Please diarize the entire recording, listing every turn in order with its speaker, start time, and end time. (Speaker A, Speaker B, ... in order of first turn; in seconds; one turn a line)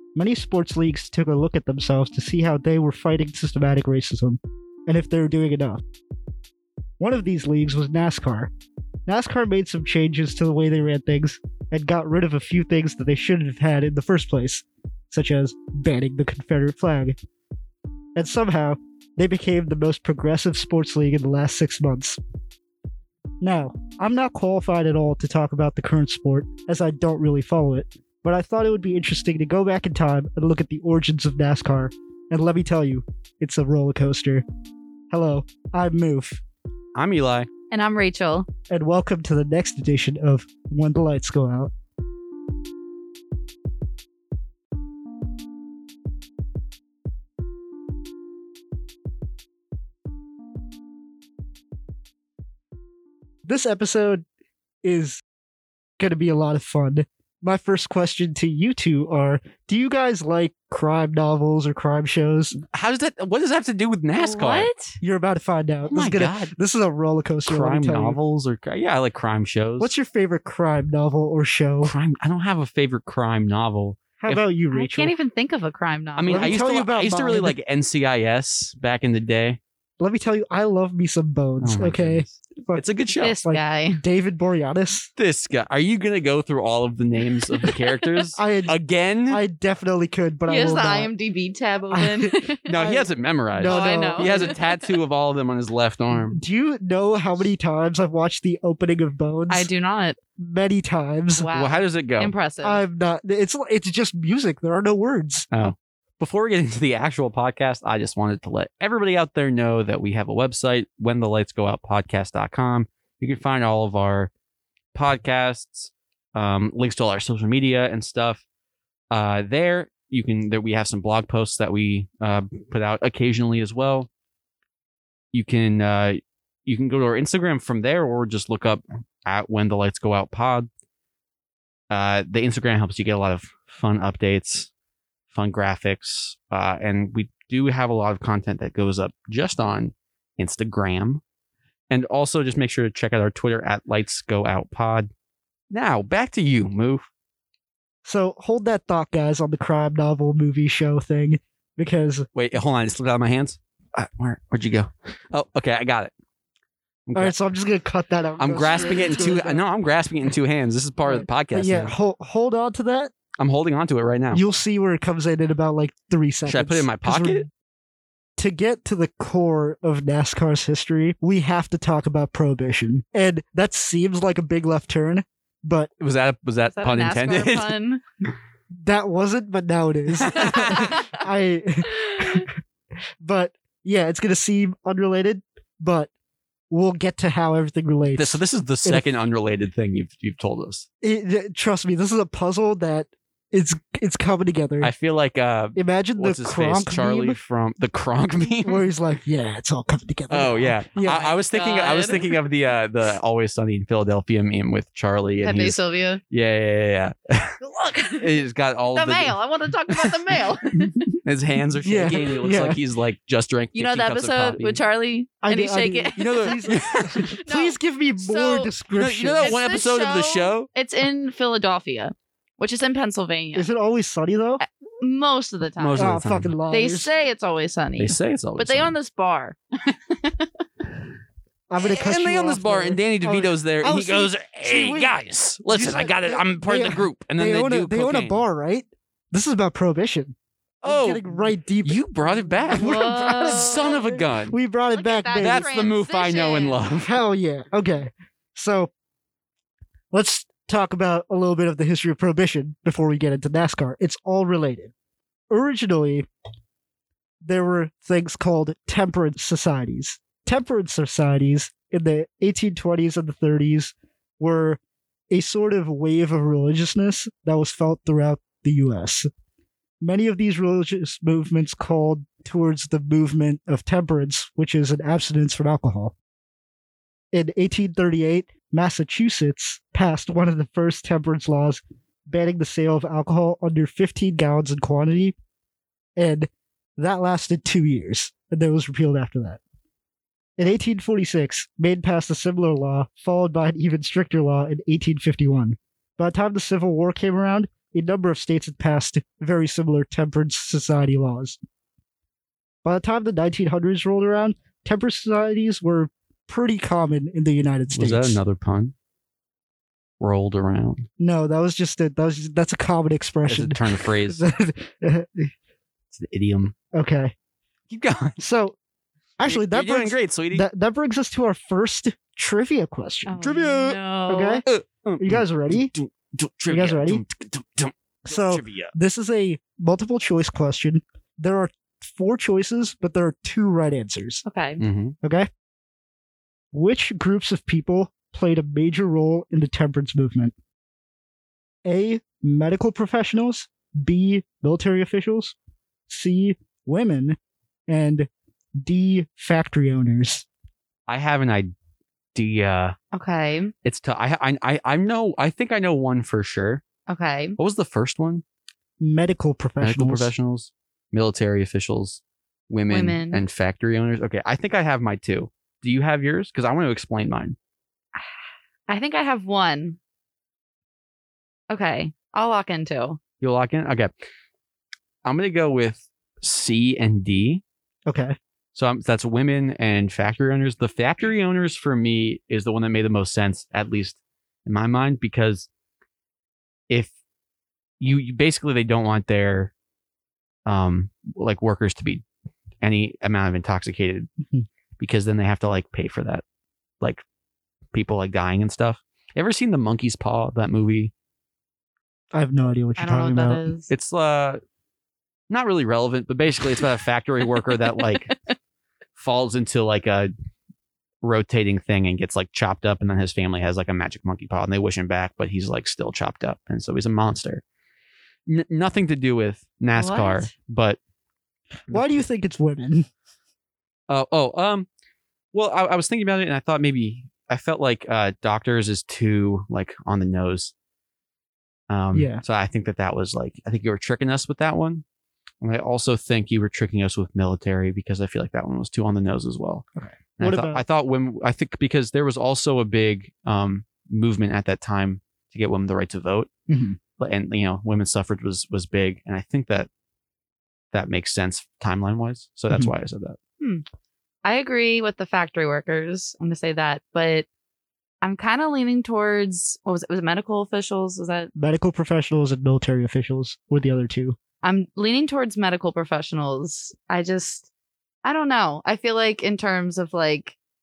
Speaker A: 0.1-5.8
Speaker A: 7.0-8.5
Speaker A: 9.1-17.2
Speaker A: 18.1-22.2
Speaker A: 23.4-34.5
Speaker A: 35.1-36.4
Speaker B: 37.0-37.5
Speaker C: 37.7-38.5
Speaker A: 38.7-41.7
Speaker A: 53.5-54.2
Speaker A: 54.8-55.2
Speaker A: 56.0-62.6
Speaker B: 62.6-64.7
Speaker C: 64.1-65.0
Speaker A: 65.0-68.2
Speaker B: 65.8-66.5
Speaker B: 67.5-69.9
Speaker A: 69.8-72.0
Speaker B: 71.8-74.4
Speaker A: 74.2-75.1
Speaker C: 74.7-76.6
Speaker B: 76.2-79.6
Speaker A: 76.3-77.6
Speaker A: 80.0-82.8
Speaker B: 81.6-83.4
Speaker C: 83.2-84.0
Speaker A: 83.4-85.1
Speaker B: 85.2-89.4
Speaker A: 88.4-88.8
Speaker A: 89.3-91.1
Speaker C: 90.5-92.7
Speaker A: 91.9-94.6
Speaker B: 92.7-96.4
Speaker C: 93.6-94.7
Speaker A: 96.3-99.7
Speaker C: 99.5-100.2
Speaker A: 100.4-101.5
Speaker C: 101.4-102.8
Speaker B: 101.5-102.3
Speaker A: 102.6-105.5
Speaker B: 105.5-114.3
Speaker B: 114.9-118.4
Speaker B: 119.1-124.1
Speaker B: 125.3-130.7
Speaker B: 131.9-134.7
Speaker B: 135.3-141.2
Speaker B: 141.9-145.1
Speaker B: 145.7-147.1
Speaker A: 148.1-152.3
Speaker B: 152.3-156.1
Speaker B: 157.1-157.3
Speaker A: 157.2-159.6
Speaker B: 158.4-161.9
Speaker C: 158.8-159.4
Speaker A: 161.4-163.1
Speaker B: 163.4-164.4
Speaker A: 164.3-167.5
Speaker B: 166.5-167.5
Speaker A: 168.4-175.9
Speaker B: 176.0-177.7
Speaker C: 176.8-178.0
Speaker A: 178.8-182.5
Speaker B: 180.2-181.0
Speaker C: 180.5-181.2
Speaker C: 181.9-182.5
Speaker A: 183.2-186.1
Speaker A: 186.7-189.1
Speaker B: 188.2-190.9
Speaker A: 191.0-194.9
Speaker B: 194.8-198.9
Speaker A: 195.8-197.4
Speaker A: 198.7-201.3
Speaker B: 200.3-205.8
Speaker C: 201.1-202.3
Speaker C: 205.4-206.2
Speaker B: 206.3-209.4
Speaker C: 207.7-208.2
Speaker C: 208.9-210.9
Speaker B: 209.9-210.3
Speaker A: 210.8-211.2
Speaker B: 211.2-214.8
Speaker A: 211.8-212.8
Speaker C: 213.8-218.7
Speaker A: 215.4-219.6
Speaker B: 216.2-217.3
Speaker B: 219.0-220.7
Speaker C: 219.4-223.7
Speaker A: 223.6-224.6
Speaker C: 224.6-226.2
Speaker B: 225.8-226.5
Speaker A: 226.0-227.1
Speaker C: 226.7-230.5
Speaker B: 228.0-228.9
Speaker A: 231.7-235.2
Speaker B: 231.8-238.4
Speaker A: 235.7-242.0
Speaker B: 240.8-244.6
Speaker A: 242.7-245.7
Speaker C: 242.7-244.0
Speaker C: 244.9-246.8
Speaker B: 245.4-247.2
Speaker A: 247.0-248.9
Speaker A: 250.1-254.9
Speaker A: 255.5-256.3
Speaker A: 257.4-269.3
Speaker A: 270.0-276.2
Speaker A: 277.3-285.4
Speaker A: 286.2-289.6
Speaker A: 290.6-301.6
Speaker A: 302.8-308.4
Speaker B: 307.9-308.9
Speaker B: 310.2-311.1
Speaker A: 311.2-315.5
Speaker B: 313.5-314.4
Speaker B: 316.1-316.7
Speaker A: 316.9-317.3
Speaker B: 317.9-318.4
Speaker A: 318.4-318.8
Speaker A: 319.4-323.4
Speaker B: 319.5-320.7
Speaker C: 323.3-324.6
Speaker B: 323.4-324.0
Speaker A: 324.3-324.6
Speaker B: 324.6-328.9
Speaker A: 325.2-325.9
Speaker A: 326.7-327.2
Speaker A: 328.3-334.4
Speaker C: 334.4-334.8
Speaker B: 334.8-335.1
Speaker A: 335.2-335.5
Speaker A: 336.7-340.5
Speaker A: 341.9-345.6
Speaker A: 346.1-347.4
Speaker A: 347.9-350.4
Speaker B: 351.1-351.7
Speaker B: 352.4-353.0
Speaker C: 353.1-353.7
Speaker B: 353.9-356.8
Speaker C: 357.1-357.6
Speaker B: 357.6-358.4
Speaker A: 359.0-360.3
Speaker B: 359.8-367.6
Speaker C: 362.9-363.4
Speaker C: 368.9-370.0
Speaker C: 371.7-373.2
Speaker B: 373.4-374.1
Speaker B: 375.2-377.6
Speaker A: 378.1-378.4
Speaker B: 378.7-385.7
Speaker B: 388.0-389.7
Speaker B: 390.7-392.2
Speaker B: 392.8-394.3
Speaker B: 395.0-396.4
Speaker B: 397.9-401.1
Speaker A: 402.3-403.6
Speaker C: 403.0-403.9
Speaker B: 403.9-404.6
Speaker B: 405.5-408.4
Speaker B: 409.2-410.3
Speaker B: 411.2-417.6
Speaker B: 418.5-421.0
Speaker C: 420.0-420.5
Speaker B: 421.9-422.2
Speaker A: 421.9-423.1
Speaker B: 424.1-424.9
Speaker B: 425.5-430.7
Speaker B: 431.9-435.0
Speaker A: 432.1-432.4
Speaker B: 435.6-439.9
Speaker A: 440.0-440.8
Speaker B: 440.4-446.5
Speaker A: 446.7-447.0
Speaker B: 447.2-449.9
Speaker B: 450.9-453.4
Speaker C: 454.4-457.5
Speaker C: 458.2-461.5
Speaker A: 461.6-464.4
Speaker C: 464.6-467.7
Speaker C: 468.2-470.6